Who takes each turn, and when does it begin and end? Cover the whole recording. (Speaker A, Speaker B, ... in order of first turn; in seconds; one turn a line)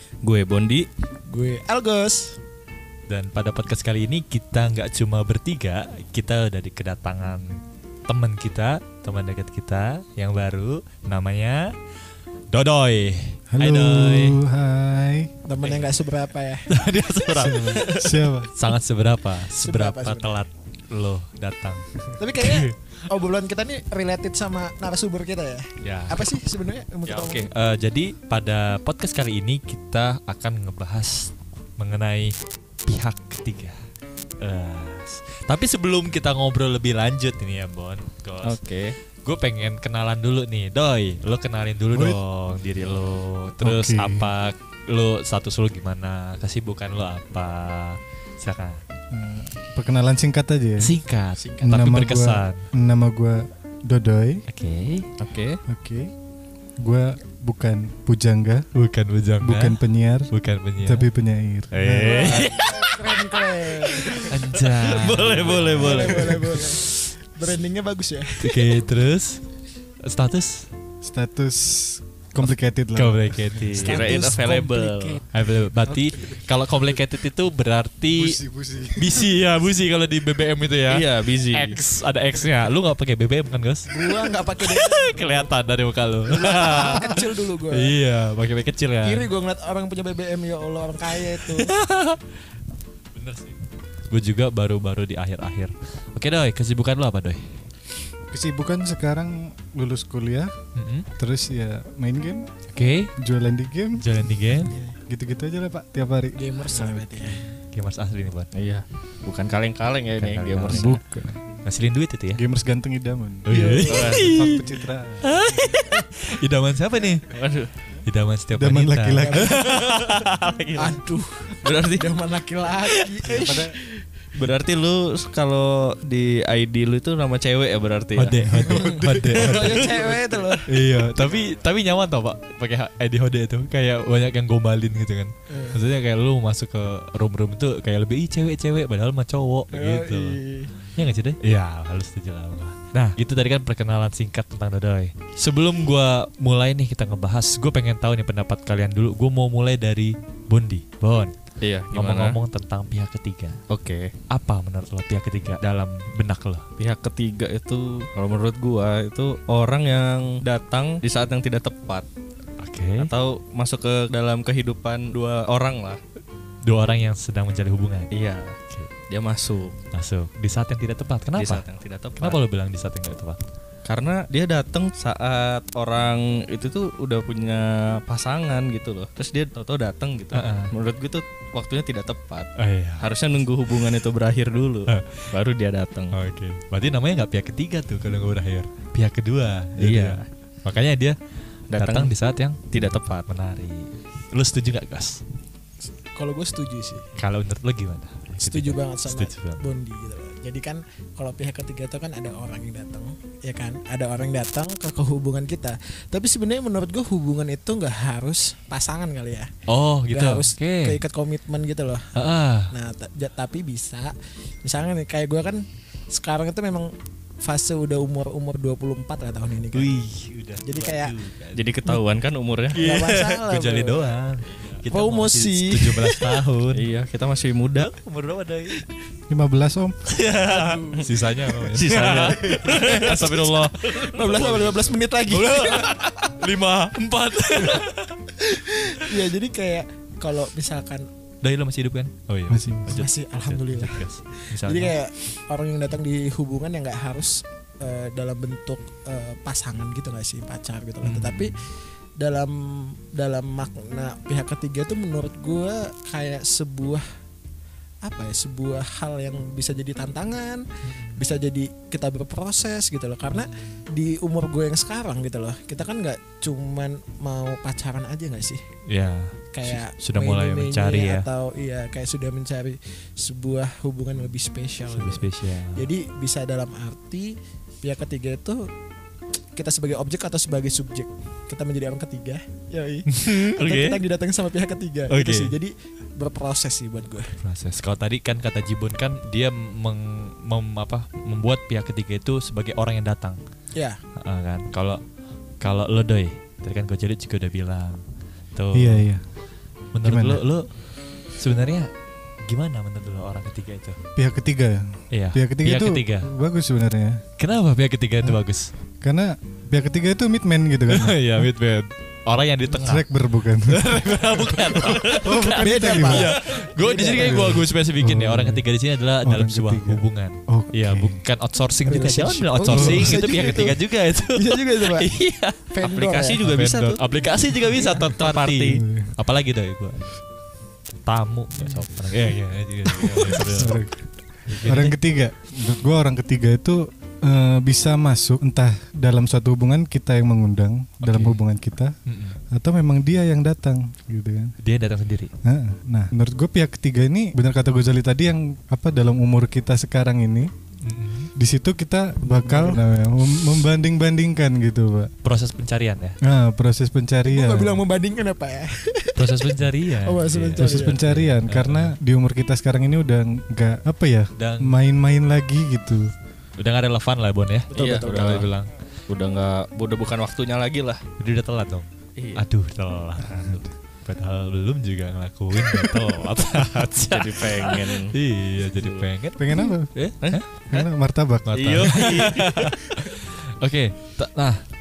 Speaker A: 0.2-0.9
Speaker B: 1.3-2.4
Speaker C: 3.1-11.7
Speaker C: 12.5-14.4
Speaker D: 13.5-15.3
Speaker B: 15.5-16.7
Speaker C: 16.7-21.9
Speaker D: 17.3-18.5
Speaker B: 19.6-20.4
Speaker B: 22.2-27.5
Speaker C: 22.4-22.7
Speaker C: 25.8-26.3
Speaker C: 27.1-33.8
Speaker C: 34.4-38.6
Speaker A: 38.5-39.0
Speaker C: 39.2-48.8
Speaker D: 41.9-42.2
Speaker D: 43.6-44.3
Speaker D: 49.1-50.9
Speaker C: 50.8-52.7
Speaker B: 51.4-51.8
Speaker D: 51.6-54.5
Speaker C: 54.5-55.1
Speaker A: 55.2-55.6
Speaker D: 55.7-56.1
Speaker D: 56.8-58.7
Speaker C: 58.7-59.8
Speaker D: 59.4-62.4
Speaker C: 60.3-61.1
Speaker C: 61.7-63.4
Speaker B: 62.0-64.3
Speaker A: 63.9-66.6
Speaker C: 64.1-66.7
Speaker B: 65.5-68.8
Speaker C: 68.4-69.4
Speaker C: 70.0-70.7
Speaker D: 71.0-73.6
Speaker C: 73.0-74.1
Speaker A: 73.7-75.2
Speaker B: 73.8-75.2
Speaker C: 75.3-78.4
Speaker D: 75.9-76.4
Speaker D: 78.2-79.3
Speaker C: 79.0-89.3
Speaker A: 80.9-81.8
Speaker B: 83.9-85.5
Speaker B: 86.3-88.0
Speaker B: 89.0-91.8
Speaker C: 91.3-92.2
Speaker C: 93.2-93.6
Speaker C: 94.1-97.5
Speaker D: 98.3-100.5
Speaker C: 100.8-101.1
Speaker D: 101.2-102.5
Speaker C: 102.7-103.1
Speaker D: 103.2-104.2
Speaker C: 104.0-104.8
Speaker B: 104.6-105.0
Speaker D: 105.1-107.4
Speaker B: 106.3-107.4
Speaker C: 107.7-108.5
Speaker A: 108.5-111.0
Speaker C: 110.2-111.0
Speaker D: 110.7-111.4
Speaker C: 111.6-112.4
Speaker D: 112.3-115.8
Speaker C: 113.5-114.7
Speaker A: 113.5-114.3
Speaker B: 113.6-114.2
Speaker C: 115.2-117.3
Speaker A: 117.3-117.7
Speaker C: 118.0-121.0
Speaker D: 118.5-119.6
Speaker B: 119.1-120.0
Speaker A: 120.3-120.8
Speaker B: 120.8-124.0
Speaker A: 121.6-122.1
Speaker D: 123.3-123.8
Speaker A: 124.3-131.6
Speaker C: 128.2-129.9
Speaker D: 128.5-128.9
Speaker B: 128.7-130.7
Speaker C: 130.7-140.4
Speaker B: 135.5-135.8
Speaker B: 139.7-140.7
Speaker C: 141.0-151.3
Speaker A: 151.6-152.4
Speaker C: 151.9-153.6
Speaker A: 153.7-154.1
Speaker C: 154.3-156.7
Speaker A: 156.8-162.1
Speaker C: 162.6-163.1
Speaker A: 163.0-166.0
Speaker C: 166.6-168.1
Speaker A: 168.1-168.6
Speaker A: 169.1-169.8
Speaker C: 169.9-171.6
Speaker A: 171.4-172.4
Speaker C: 172.2-173.4
Speaker A: 173.9-186.1
Speaker C: 180.3-180.7
Speaker C: 182.6-183.1
Speaker C: 184.9-185.3
Speaker C: 186.1-191.2
Speaker A: 189.8-190.2
Speaker A: 191.7-192.1
Speaker C: 191.8-195.2
Speaker A: 192.7-193.2
Speaker B: 196.1-197.0
Speaker C: 197.2-199.6
Speaker B: 198.4-209.5
Speaker C: 209.7-211.0
Speaker B: 210.1-220.0
Speaker C: 212.2-212.7
Speaker C: 219.7-222.0
Speaker B: 220.6-221.2
Speaker A: 221.6-222.8
Speaker C: 222.7-226.8
Speaker B: 222.8-224.1
Speaker B: 224.9-226.2
Speaker A: 226.7-227.9
Speaker C: 227.8-228.8
Speaker D: 229.3-230.0
Speaker A: 230.1-231.1
Speaker C: 230.3-234.4
Speaker B: 230.5-231.1
Speaker A: 231.6-235.0
Speaker B: 232.1-236.0
Speaker C: 235.3-238.2
Speaker B: 238.4-241.1
Speaker C: 241.4-245.0
Speaker D: 242.5-242.9
Speaker B: 242.9-251.7
Speaker C: 251.0-251.5
Speaker B: 252.2-257.1
Speaker B: 258.0-268.6
Speaker C: 260.9-261.2
Speaker C: 268.9-271.3
Speaker B: 269.5-278.7
Speaker C: 274.9-275.9
Speaker B: 279.6-287.3
Speaker C: 283.1-284.0
Speaker C: 285.1-285.5
Speaker C: 287.4-293.4
Speaker C: 294.2-295.0
Speaker C: 295.6-298.0
Speaker C: 298.6-299.1
Speaker D: 298.7-299.2
Speaker C: 299.9-300.7
Speaker D: 300.0-300.4
Speaker C: 301.4-301.9
Speaker C: 302.5-304.0
Speaker D: 304.2-307.2
Speaker C: 305.1-306.3
Speaker C: 307.4-308.7
Speaker D: 309.0-311.5
Speaker C: 310.9-313.1
Speaker D: 312.7-316.4
Speaker C: 313.7-325.7
Speaker B: 315.3-317.6
Speaker D: 316.9-318.6
Speaker D: 319.2-321.2
Speaker B: 321.9-323.8
Speaker D: 322.7-323.6
Speaker B: 324.4-325.1
Speaker B: 325.7-326.4
Speaker A: 325.8-327.0
Speaker C: 326.4-330.0
Speaker A: 328.0-328.8
Speaker D: 328.8-329.1
Speaker C: 331.1-333.8
Speaker B: 333.0-333.5
Speaker D: 333.3-341.9
Speaker C: 334.5-335.0
Speaker C: 341.0-341.4
Speaker C: 342.1-342.4
Speaker D: 342.5-344.6
Speaker C: 344.6-345.3
Speaker D: 345.4-350.5
Speaker C: 350.8-351.3
Speaker D: 351.4-355.1
Speaker B: 352.4-352.8
Speaker C: 355.2-356.2
Speaker D: 356.2-357.8
Speaker B: 357.3-361.0
Speaker C: 359.2-362.0
Speaker D: 360.6-366.1
Speaker C: 364.4-364.8
Speaker C: 366.6-368.7
Speaker B: 367.7-368.4
Speaker A: 367.8-368.5
Speaker A: 369.1-371.0
Speaker C: 371.2-380.5
Speaker A: 372.2-372.4
Speaker A: 377.1-378.1
Speaker A: 378.8-379.1
Speaker D: 379.4-379.9
Speaker A: 380.2-380.8
Speaker D: 380.7-381.9
Speaker C: 381.5-384.6
Speaker A: 381.5-382.8